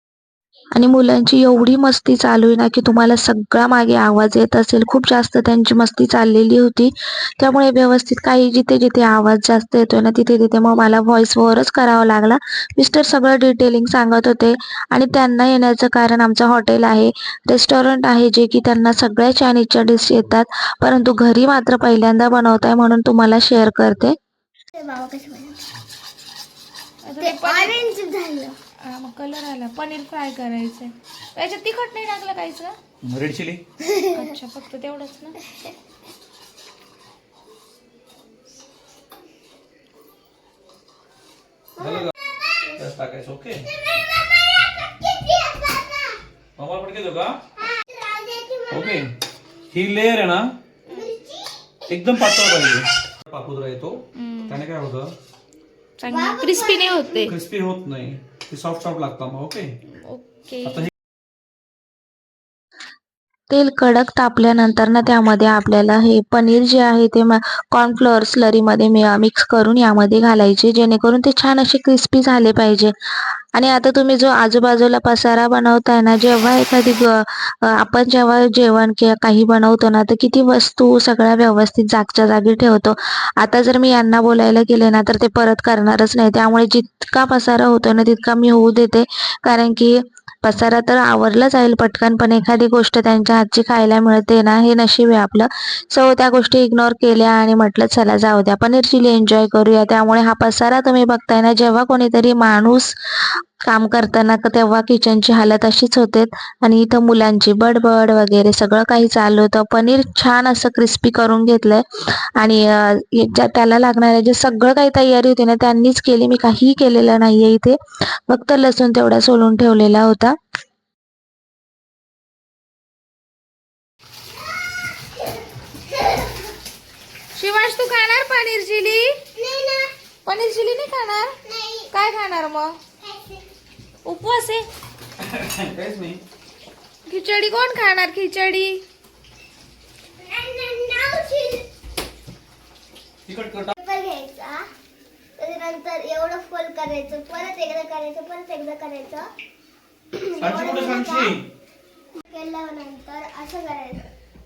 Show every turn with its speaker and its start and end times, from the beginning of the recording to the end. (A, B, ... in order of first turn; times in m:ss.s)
0:00.7-0:24.2 A
0:24.7-0:25.7 B
0:27.0-0:27.8 C
0:27.2-0:28.6 B
0:28.8-0:32.8 C
0:33.0-0:33.6 D
0:33.8-0:34.2 B
0:34.1-0:35.4 C
0:41.8-0:42.1 D
0:41.8-0:42.1 B
0:42.8-0:43.7 D
0:44.7-0:46.2 B
0:46.6-0:47.4 D
0:47.6-0:49.0 B
0:48.7-0:49.1 D
0:49.7-0:50.5 D
0:50.9-0:51.9 B
0:51.9-0:55.1 D
0:54.1-0:54.6 C
0:56.0-0:57.3 C
0:56.1-0:57.3 B
0:57.2-0:59.7 D
0:59.9-1:00.9 C
1:00.6-1:00.9 D
1:03.5-1:12.9 A
1:13.5-2:00.4 A
2:07.3-2:09.2 C
2:09.3-2:09.9 B
2:10.2-2:11.4 C
2:11.4-2:11.9 B
2:11.9-2:12.8 C
2:13.0-2:13.4 B
2:14.0-2:14.7 C
2:15.2-2:16.2 D
2:17.0-2:18.8 C
2:20.2-2:21.7 B
2:23.2-2:23.7 D
2:23.8-2:24.6 B
2:25.4-2:29.3 B
2:30.1-2:31.4 B
2:30.4-2:31.5 D
2:32.2-2:34.1 B